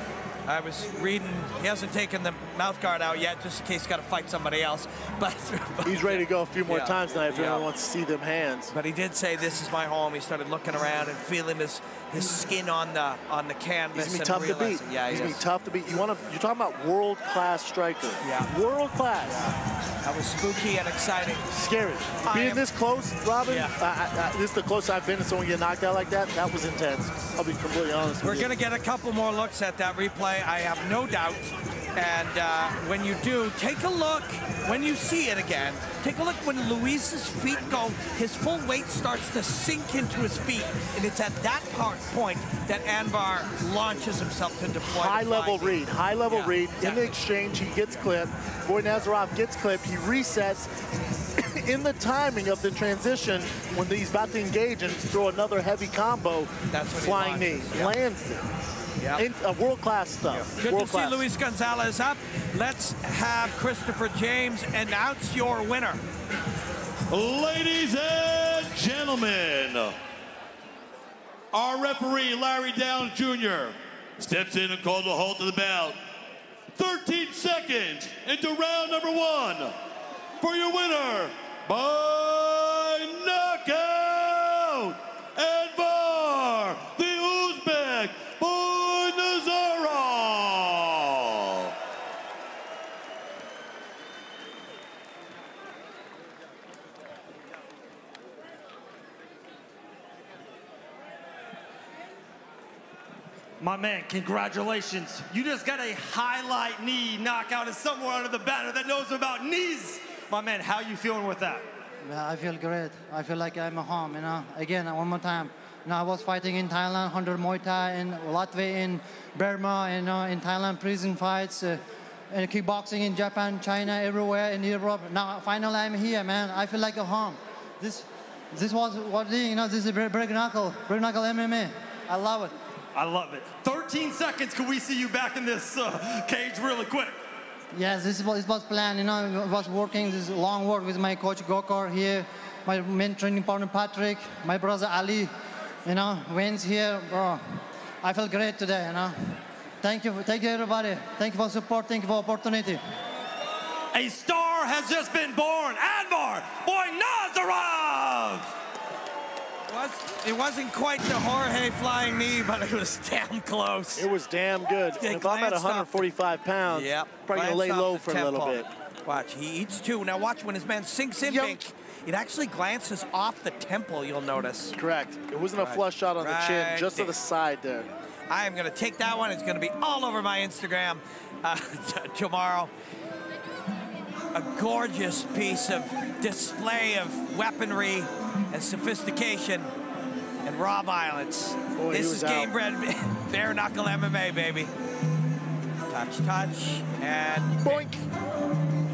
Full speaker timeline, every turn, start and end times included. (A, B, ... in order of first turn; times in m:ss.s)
0:00.4-0:07.6 A
0:05.8-0:08.7 B
0:08.7-0:15.4 A
0:13.9-0:19.4 B
0:18.2-0:18.5 A
0:20.0-0:21.4 A
0:21.5-0:28.5 B
0:22.2-0:22.7 A
0:23.4-0:23.7 A
0:28.2-0:47.2 A
0:44.8-0:50.7 B
0:51.4-0:58.4 B
0:56.7-0:58.0 A
0:59.0-0:59.2 A
0:59.1-1:01.2 B
1:00.3-1:06.0 A
1:07.1-1:09.9 C
1:11.5-1:16.0 C
1:16.7-1:19.7 C
1:20.4-1:31.7 C
1:43.6-1:51.6 D
1:52.0-2:01.8 E
2:02.3-2:12.5 E
2:12.9-2:17.2 D
2:17.7-2:25.3 E
2:25.8-2:27.4 E
2:28.0-2:29.2 E
2:29.8-2:32.8 E
2:33.9-2:38.5 D
2:39.7-2:44.1 A
2:44.0-2:48.7 B
2:45.0-2:46.1 A
2:46.7-2:54.8 A
2:51.2-2:51.6 B
2:54.8-2:57.9 B
2:55.6-2:57.1 A
2:58.3-3:02.7 A
3:04.3-3:09.7 A
3:10.4-3:14.7 A
3:11.7-3:12.5 B
3:15.9-3:17.9 A
3:17.6-3:18.0 B